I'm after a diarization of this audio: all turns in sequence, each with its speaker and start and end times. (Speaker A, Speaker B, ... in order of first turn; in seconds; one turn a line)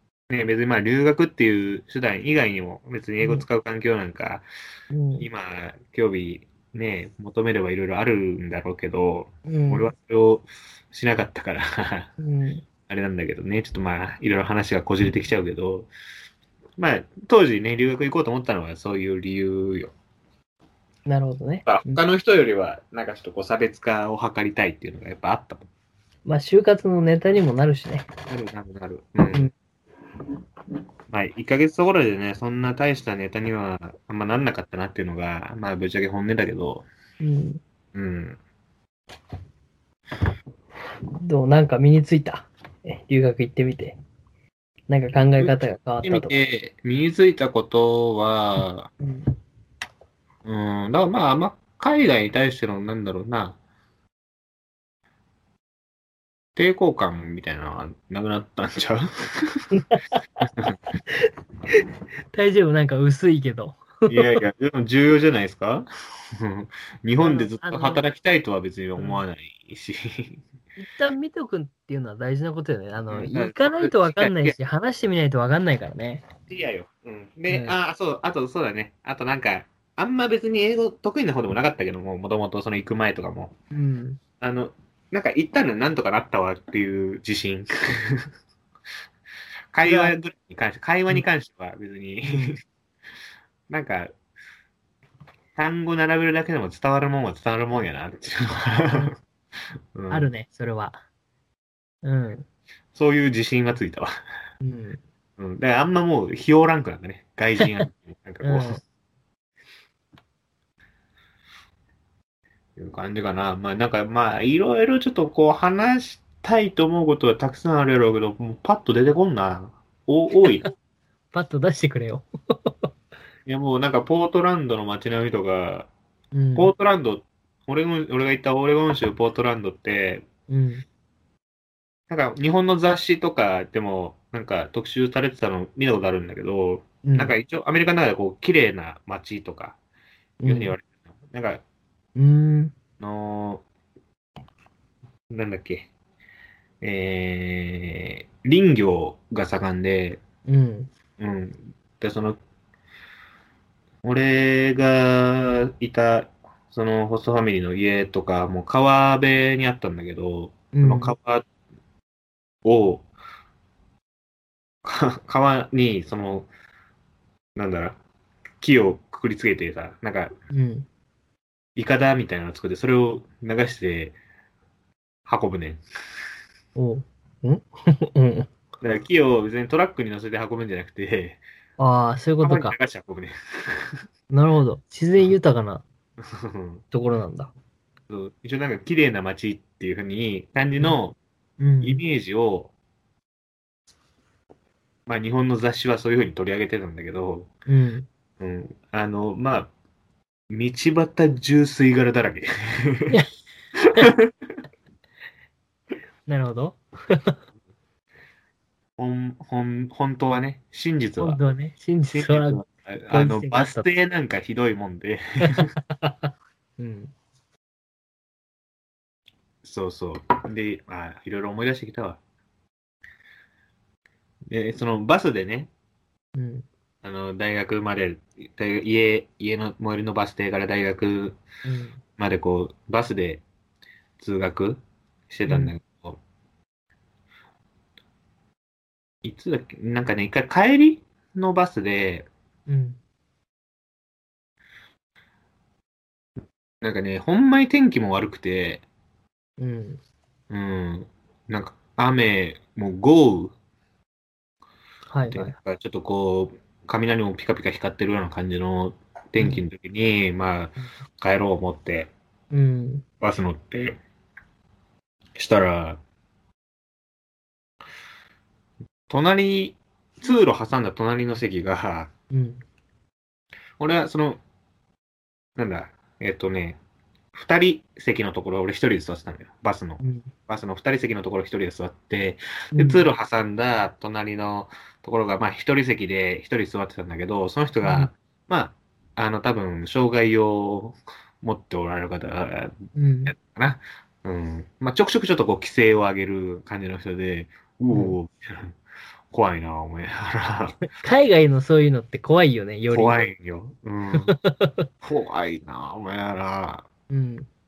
Speaker A: 0.3-4.4
Speaker B: 3.2-3.5
Speaker B: 4.9-5.3
Speaker A: 5.2-12.1
Speaker B: 9.4-9.9
Speaker B: 12.2-12.6
Speaker A: 12.9-15.9
Speaker A: 16.8-19.9
Speaker B: 21.1-22.0
Speaker A: 21.6-25.7
Speaker B: 26.2-28.1
Speaker A: 28.3-29.5
Speaker A: 31.1-36.9
Speaker B: 37.2-37.6
Speaker A: 37.9-38.4
Speaker B: 41.2-44.0
Speaker B: 44.9-46.4
Speaker A: 46.0-48.9
Speaker A: 50.4-53.6
Speaker A: 56.5-59.6
Speaker B: 62.3-64.2
Speaker A: 64.1-65.9
Speaker A: 66.4-70.4
Speaker B: 67.2-68.0
Speaker B: 69.0-69.2
Speaker B: 70.8-76.2
Speaker A: 73.1-74.5
Speaker A: 76.5-83.5
Speaker B: 77.5-77.8
Speaker B: 83.7-84.2
Speaker A: 84.4-88.3
Speaker A: 89.7-92.6
Speaker B: 89.8-90.1
Speaker B: 92.2-92.6
Speaker A: 93.7-94.1
Speaker A: 95.5-99.1
Speaker A: 99.9-100.3
Speaker B: 100.1-101.0
Speaker B: 102.0-102.5
Speaker A: 102.9-104.1
Speaker B: 104.6-105.0
Speaker A: 105.4-108.8
Speaker B: 108.4-108.8
Speaker A: 112.8-120.7
Speaker B: 121.3-122.7
Speaker A: 123.5-125.9
Speaker B: 126.3-126.7
Speaker A: 126.5-130.2
Speaker B: 130.5-130.8
Speaker A: 132.1-139.8
Speaker B: 137.0-137.3
Speaker B: 140.4-140.7
Speaker A: 140.4-141.6
Speaker B: 142.2-142.7
Speaker A: 143.0-143.6
Speaker A: 145.3-145.9
Speaker A: 146.8-150.2
Speaker B: 150.4-150.9
Speaker A: 151.2-152.4
Speaker A: 154.0-161.4
Speaker B: 160.7-161.1
Speaker A: 162.6-163.1
Speaker A: 164.8-166.5
Speaker A: 167.6-168.0
Speaker A: 168.6-170.3
Speaker B: 170.5-170.9
Speaker A: 171.8-174.2
Speaker A: 175.2-175.8
Speaker B: 176.8-178.5
Speaker A: 178.8-181.4
Speaker B: 181.8-182.7
Speaker A: 182.4-184.0
Speaker B: 184.3-185.8
Speaker A: 186.2-186.8
Speaker B: 186.9-187.5
Speaker A: 188.1-191.2
Speaker B: 191.6-192.0
Speaker A: 191.8-192.7
Speaker A: 195.1-197.5
Speaker B: 197.7-198.1
Speaker A: 198.4-199.7
Speaker A: 200.5-203.2
Speaker B: 206.2-207.3
Speaker A: 209.0-211.4
Speaker B: 211.2-213.9
Speaker A: 212.1-215.7
Speaker B: 216.0-217.1
Speaker A: 219.6-222.2
Speaker A: 224.5-225.7
Speaker B: 226.3-226.7
Speaker A: 227.0-231.4
Speaker B: 231.6-232.0
Speaker A: 232.2-233.4
Speaker A: 234.2-236.2
Speaker B: 235.5-235.7
Speaker A: 239.2-242.3
Speaker B: 242.7-243.0
Speaker A: 246.8-248.8
Speaker B: 249.6-250.0
Speaker A: 250.5-253.5
Speaker B: 255.1-255.6
Speaker A: 255.3-262.1
Speaker B: 259.4-259.6
Speaker B: 262.5-263.0
Speaker A: 263.2-264.0
Speaker A: 265.4-266.0
Speaker A: 269.1-272.1
Speaker B: 272.3-272.6
Speaker A: 273.8-274.4
Speaker A: 275.6-276.8
Speaker A: 277.3-292.8
Speaker B: 280.0-280.3
Speaker B: 282.7-283.0
Speaker B: 287.8-288.1
Speaker B: 292.9-293.3
Speaker A: 293.3-298.8
Speaker B: 297.9-298.2
Speaker A: 299.3-300.8
Speaker B: 300.9-303.2
Speaker A: 302.9-304.3
Speaker B: 304.3-304.8
Speaker A: 305.0-306.9
Speaker B: 307.1-307.5